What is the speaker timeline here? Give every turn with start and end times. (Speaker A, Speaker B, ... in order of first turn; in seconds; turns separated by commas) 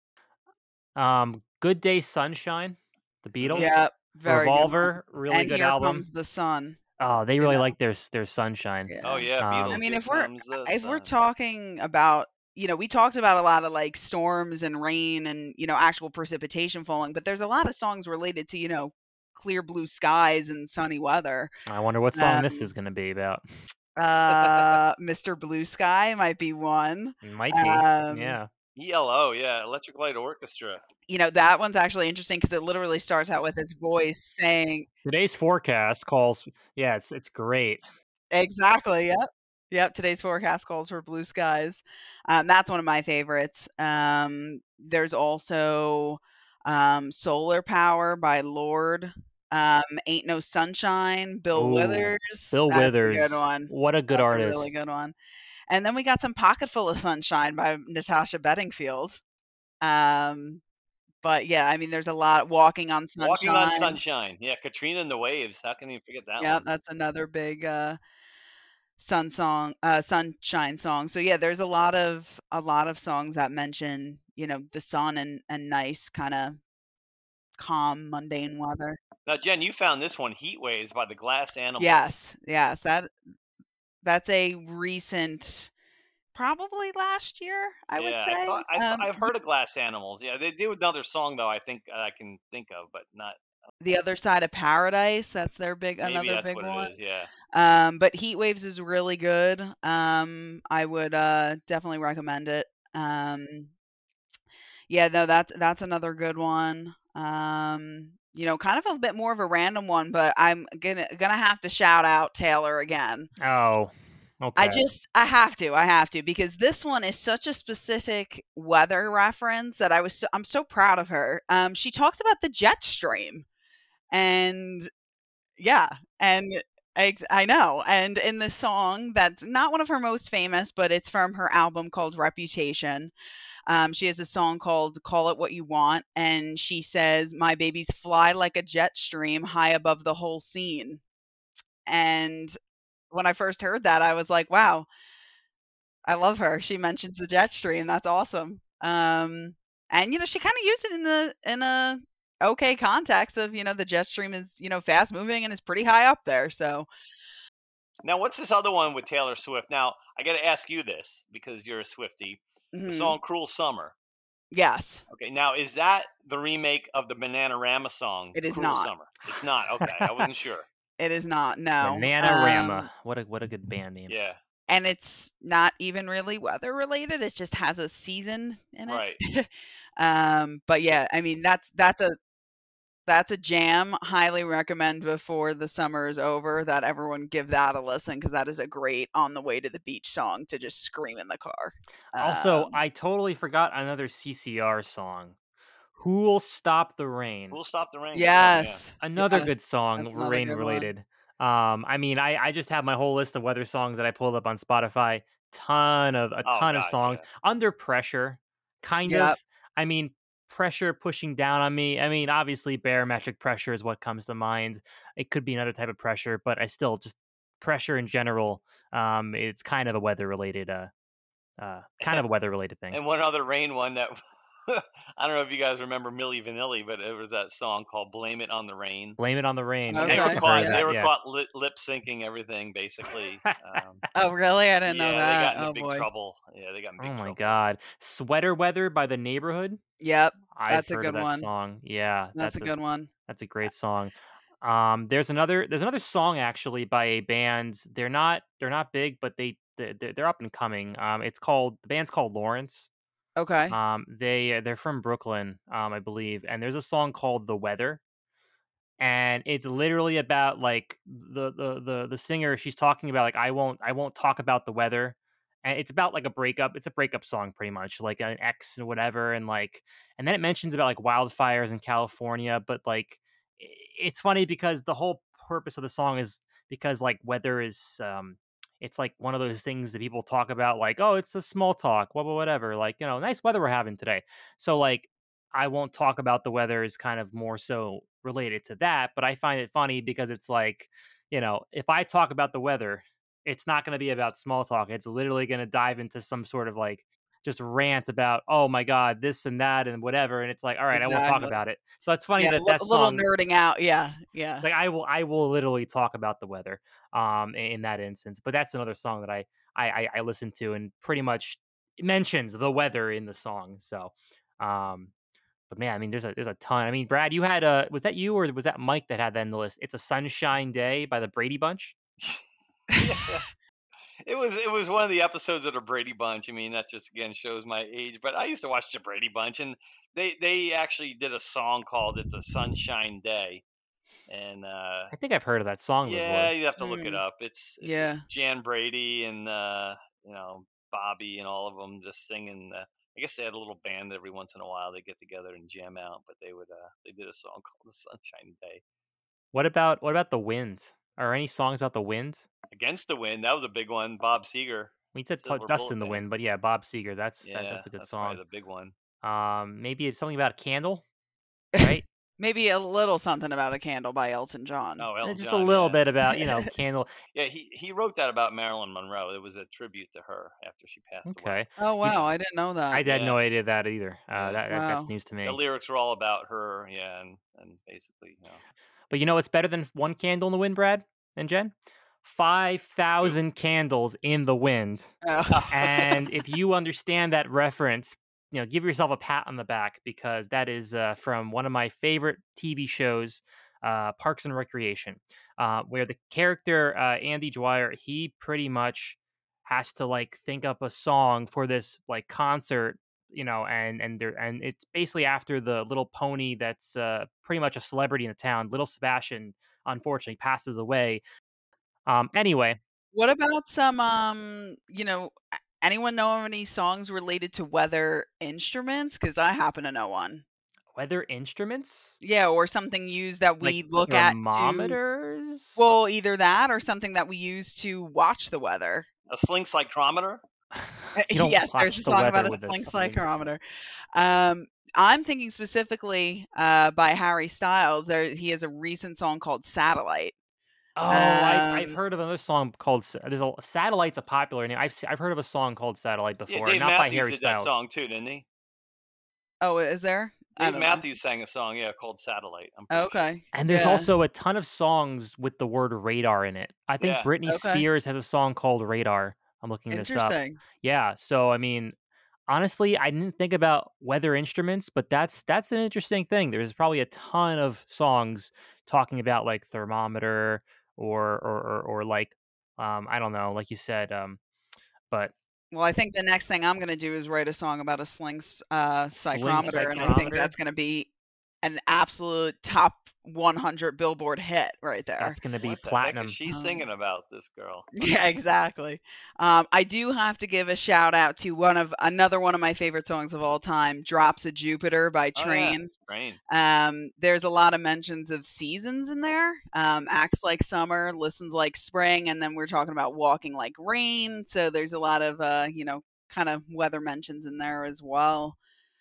Speaker A: 0.9-6.0, Speaker B: 3.4-3.7, Speaker C: 3.5-6.8, Speaker A: 7.0-9.8, Speaker C: 7.4-7.7, Speaker C: 8.9-21.5, Speaker B: 9.0-11.1, Speaker A: 21.7-23.4, Speaker C: 22.1-22.7, Speaker C: 24.0-28.4, Speaker A: 27.2-28.5, Speaker B: 28.8-30.8, Speaker C: 31.1-34.9, Speaker A: 35.0-37.8, Speaker C: 38.3-55.1, Speaker A: 51.5-54.8, Speaker C: 55.7-59.2, Speaker C: 59.8-60.6, Speaker C: 61.2-64.0, Speaker B: 63.2-66.6, Speaker C: 66.4-68.0, Speaker C: 69.0-76.6, Speaker C: 77.6-79.0, Speaker B: 79.2-82.1, Speaker C: 81.8-83.1, Speaker C: 84.0-85.7, Speaker C: 86.3-89.3, Speaker B: 88.0-93.4, Speaker C: 93.8-96.9, Speaker B: 96.0-97.3, Speaker C: 97.5-103.7, Speaker C: 104.9-113.3, Speaker A: 113.4-114.8, Speaker C: 114.5-123.4, Speaker C: 124.1-124.9, Speaker C: 125.6-133.1, Speaker C: 133.7-141.0, Speaker C: 141.9-142.6, Speaker C: 143.1-144.9, Speaker C: 146.1-156.9, Speaker B: 158.0-163.9, Speaker C: 162.7-163.2, Speaker C: 164.5-165.0, Speaker B: 165.1-170.7, Speaker C: 168.3-168.9, Speaker A: 169.8-170.3, Speaker C: 171.0-172.9, Speaker A: 171.8-174.1, Speaker B: 174.1-174.4, Speaker C: 174.7-182.2, Speaker B: 178.8-179.2, Speaker C: 183.1-192.8, Speaker A: 192.2-195.3, Speaker A: 195.9-197.6, Speaker B: 197.5-198.8, Speaker C: 198.1-200.9, Speaker A: 199.0-220.9, Speaker B: 206.4-207.2, Speaker C: 209.0-209.4, Speaker A: 221.6-223.0, Speaker B: 222.9-229.2, Speaker A: 229.2-231.1, Speaker C: 229.9-230.8, Speaker B: 230.0-234.1, Speaker C: 234.1-236.1, Speaker B: 234.8-237.6, Speaker A: 237.0-239.8, Speaker C: 240.0-241.5, Speaker A: 240.5-242.7, Speaker C: 242.3-243.1, Speaker A: 243.3-252.9, Speaker C: 253.4-253.8, Speaker A: 253.7-258.0, Speaker A: 259.0-303.3, Speaker C: 300.9-301.6, Speaker C: 302.4-304.6, Speaker A: 304.6-315.1, Speaker A: 315.7-321.9, Speaker B: 322.2-323.5, Speaker B: 324.2-333.6, Speaker B: 334.3-335.1, Speaker A: 335.1-336.5, Speaker B: 336.0-348.8, Speaker C: 336.8-337.2, Speaker C: 337.8-338.2, Speaker A: 349.5-352.4, Speaker B: 352.7-356.2, Speaker A: 355.1-358.4, Speaker B: 357.4-358.9, Speaker A: 359.2-361.0, Speaker C: 361.7-365.1, Speaker A: 361.8-362.0, Speaker B: 365.0-366.0, Speaker A: 365.2-367.1, Speaker B: 367.3-371.6, Speaker A: 371.2-372.2, Speaker C: 371.8-373.0, Speaker A: 372.9-375.6, Speaker B: 373.1-373.4, Speaker B: 374.3-374.6, Speaker C: 374.7-375.1, Speaker B: 375.4-378.6, Speaker A: 379.1-385.1, Speaker C: 385.2-386.1, Speaker A: 385.7-411.2, Speaker A: 412.1-412.8, Speaker C: 413.1-420.4, Speaker A: 420.9-422.1, Speaker C: 422.2-425.0, Speaker A: 423.6-425.9, Speaker C: 425.8-429.1, Speaker B: 429.3-430.4, Speaker A: 430.8-433.4, Speaker C: 431.1-433.6, Speaker C: 434.1-440.3, Speaker A: 440.9-447.7, Speaker C: 441.1-442.0, Speaker B: 446.5-448.4, Speaker C: 449.6-451.0, Speaker B: 450.6-453.2, Speaker C: 452.9-454.1, Speaker A: 453.5-461.9, Speaker B: 457.0-457.3, Speaker C: 457.4-457.8, Speaker C: 459.9-460.6, Speaker A: 462.5-474.4, Speaker C: 475.7-481.1, Speaker A: 479.2-480.5, Speaker C: 481.6-485.4, Speaker A: 485.2-486.4, Speaker B: 485.6-487.9, Speaker C: 486.5-486.9, Speaker C: 487.9-495.9, Speaker B: 495.4-496.4, Speaker C: 496.5-508.6